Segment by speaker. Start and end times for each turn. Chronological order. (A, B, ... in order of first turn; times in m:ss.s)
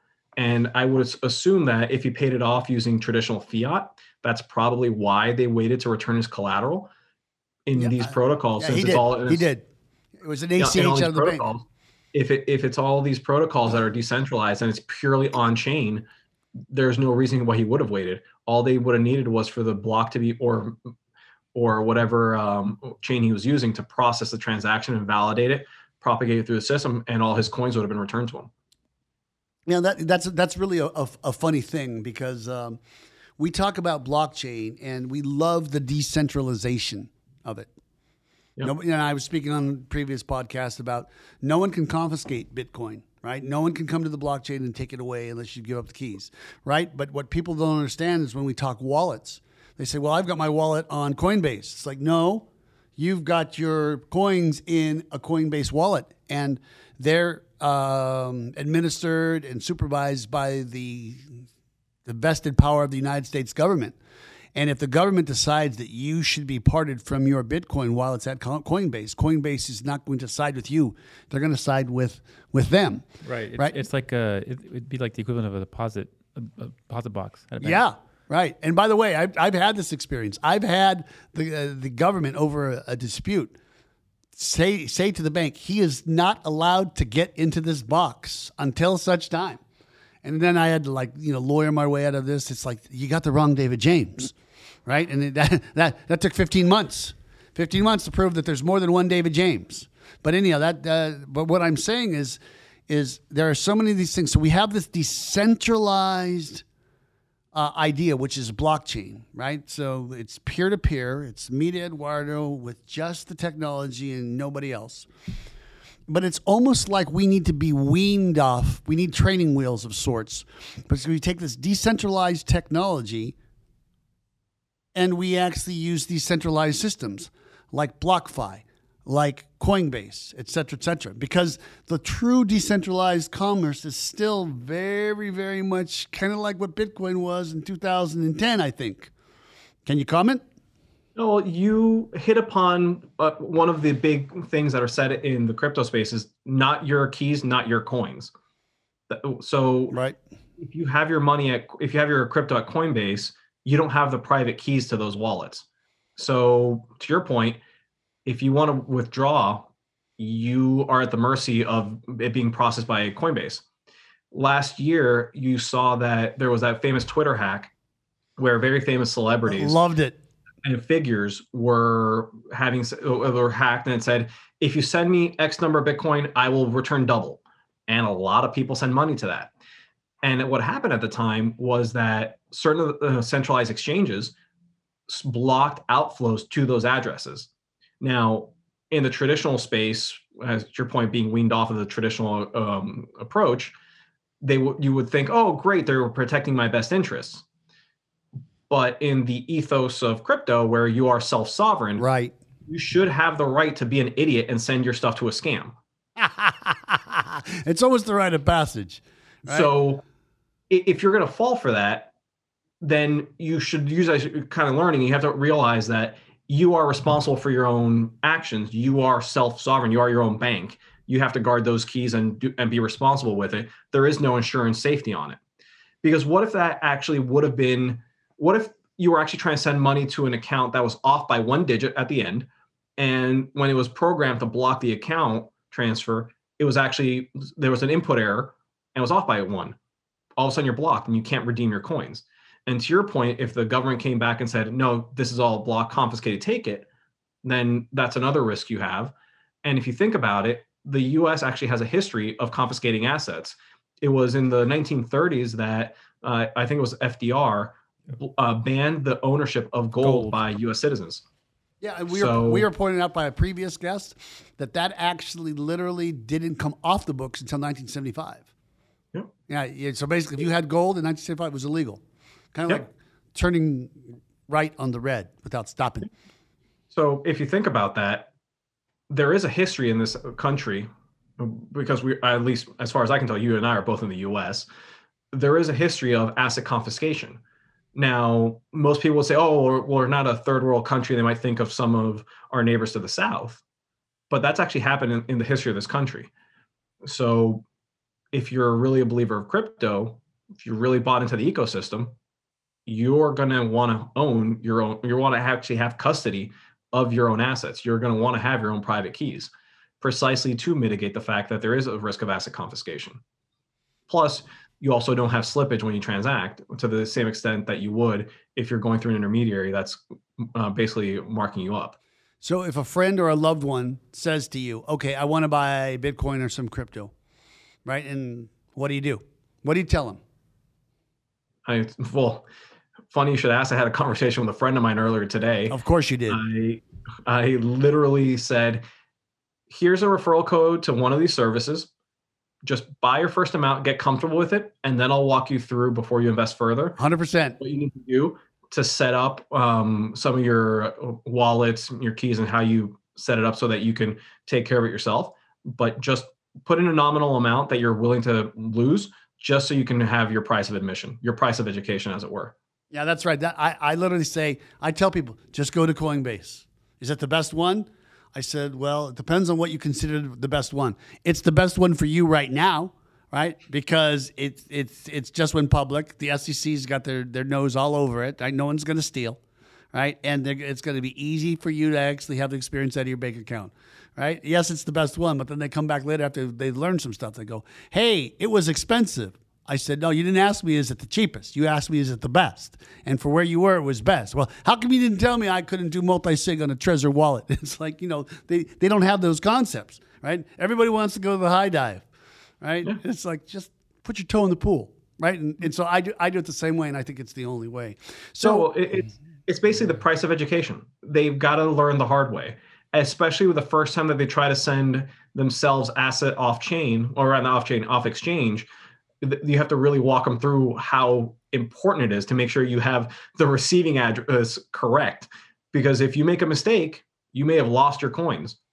0:00.4-0:06.9 A
0:07.7-0:09.5 A
0:07.8-0:09.7 B
0:10.2-0:11.5 B
0:10.6-0:16.1 A
0:16.7-0:20.8 A
0:21.5-0:28.5 A
0:29.7-0:32.8 B
0:33.4-0:37.7 B
0:38.6-1:01.5 B
1:02.0-1:04.0 B
1:04.6-1:13.0 B
1:13.2-1:17.8 C
1:17.6-1:23.6 B
1:24.4-1:29.6 B
1:30.2-1:34.3 B
1:34.9-1:46.6 B
1:47.5-1:55.1 B
1:56.1-2:03.4 B
2:05.0-2:19.1 B
2:19.9-2:20.4 B
2:21.2-2:28.3 A
2:29.1-2:30.0 A
2:29.9-2:30.2 B
2:30.6-2:35.7 A
2:36.2-2:37.6 A
2:38.3-2:43.6 A
2:44.3-2:47.7 A
2:48.4-2:49.8 A
2:49.5-2:50.2 B
2:50.6-2:59.5 A
3:00.2-3:04.3 A
3:05.1-3:07.5 A
3:08.0-3:13.8 A
3:14.4-3:17.4 A
3:18.7-3:22.0 A
3:22.0-3:22.4 B
3:22.7-3:25.8 A
3:26.2-3:29.7 B
3:29.5-3:30.0 A
3:30.7-3:32.1 A
3:32.8-3:45.4 A
3:46.0-3:59.8 A
4:00.4-4:06.9 A
4:07.4-4:09.1 A
4:09.6-4:21.2 A
4:20.0-4:20.4 C
4:21.8-4:28.5 B
4:22.1-4:22.7 A
4:29.5-4:32.0 B
4:32.5-4:36.1 B
4:36.9-4:38.3 A
4:39.1-4:44.7 A
4:45.3-4:47.4 A
4:48.0-4:53.6 A
4:54.3-4:56.3 A
4:57.0-4:57.6 A
4:58.3-5:02.2 A
5:02.9-5:13.2 A
5:14.1-5:22.0 A
5:22.4-5:27.1 B
5:27.8-5:30.2 B
5:31.6-5:32.5 A
5:33.1-5:35.8 A
5:35.7-5:36.4 B
5:36.3-5:38.8 A
5:39.7-5:41.9 A
5:42.6-5:47.0 A
5:47.0-5:47.6 B
5:47.6-6:02.5 A
6:02.9-6:19.4 B
6:19.9-6:42.1 B
6:42.6-6:48.7 B
6:48.4-6:58.7 A
6:59.2-7:08.6 A